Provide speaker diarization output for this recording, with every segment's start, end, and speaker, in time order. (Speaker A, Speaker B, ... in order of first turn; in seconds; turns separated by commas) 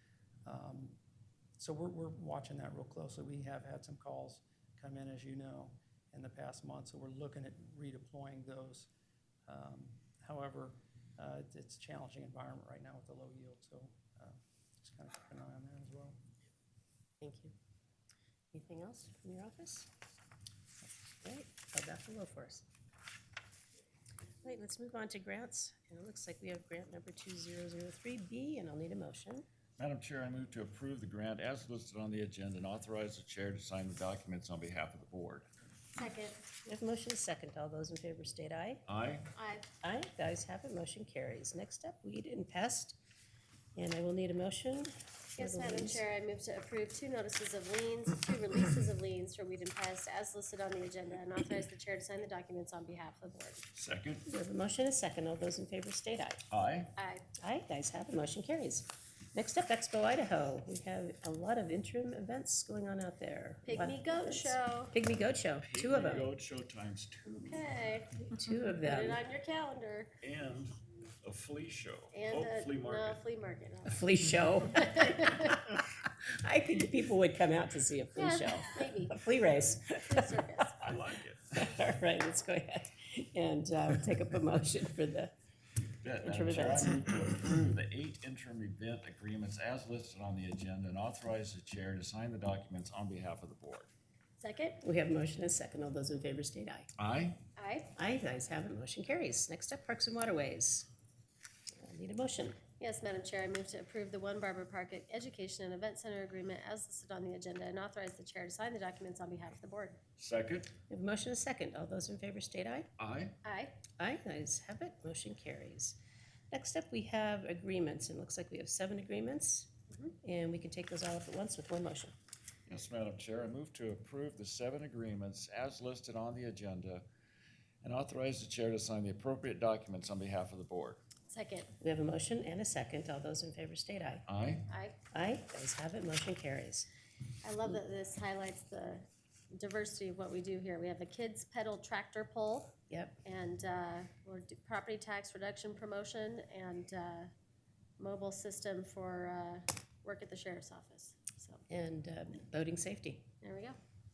Speaker A: 0.5-1.0, Speaker A: 1.6-8.9, Speaker A: 9.5-16.2, Speaker B: 17.2-17.5, Speaker B: 18.5-19.9, Speaker B: 21.2-22.6, Speaker B: 24.4-29.4, Speaker C: 29.8-35.5, Speaker D: 35.9-36.4, Speaker B: 36.6-38.8, Speaker C: 38.9-39.3, Speaker D: 39.4-39.7, Speaker B: 39.8-43.0, Speaker B: 43.7-46.0, Speaker D: 45.4-53.6, Speaker C: 53.7-54.2, Speaker B: 54.2-56.4, Speaker C: 56.5-56.9, Speaker D: 57.0-57.2, Speaker B: 57.4-66.3, Speaker D: 63.6-64.9, Speaker C: 65.6-67.7, Speaker D: 67.3-68.1, Speaker B: 68.3-69.2, Speaker D: 68.8-70.1, Speaker C: 70.2-73.2, Speaker D: 72.1-74.0, Speaker B: 73.8-75.2, Speaker D: 74.7-75.5, Speaker B: 76.4-80.4, Speaker D: 78.2-79.1, Speaker D: 80.0-80.9, Speaker C: 80.8-81.4, Speaker B: 81.5-85.3, Speaker C: 86.0-93.9, Speaker B: 86.2-87.0, Speaker D: 94.4-94.8, Speaker B: 94.8-96.9, Speaker C: 97.0-97.4, Speaker D: 97.6-97.9, Speaker B: 98.0-100.9, Speaker B: 101.8-102.6, Speaker D: 102.8-110.0, Speaker C: 110.2-110.7, Speaker B: 110.9-112.9, Speaker C: 113.0-113.3, Speaker D: 113.4-113.8, Speaker B: 114.0-116.0, Speaker B: 116.5-119.7, Speaker B: 120.2-122.1, Speaker C: 122.7-127.0, Speaker C: 127.8-131.0, Speaker D: 131.3-131.7, Speaker B: 131.8-134.2, Speaker C: 134.3-134.6, Speaker D: 134.7-134.9, Speaker B: 135.1-136.9, Speaker D: 137.4-147.3, Speaker B: 142.9-143.2, Speaker D: 148.0-151.6, Speaker B: 151.7-153.3, Speaker D: 153.4-153.8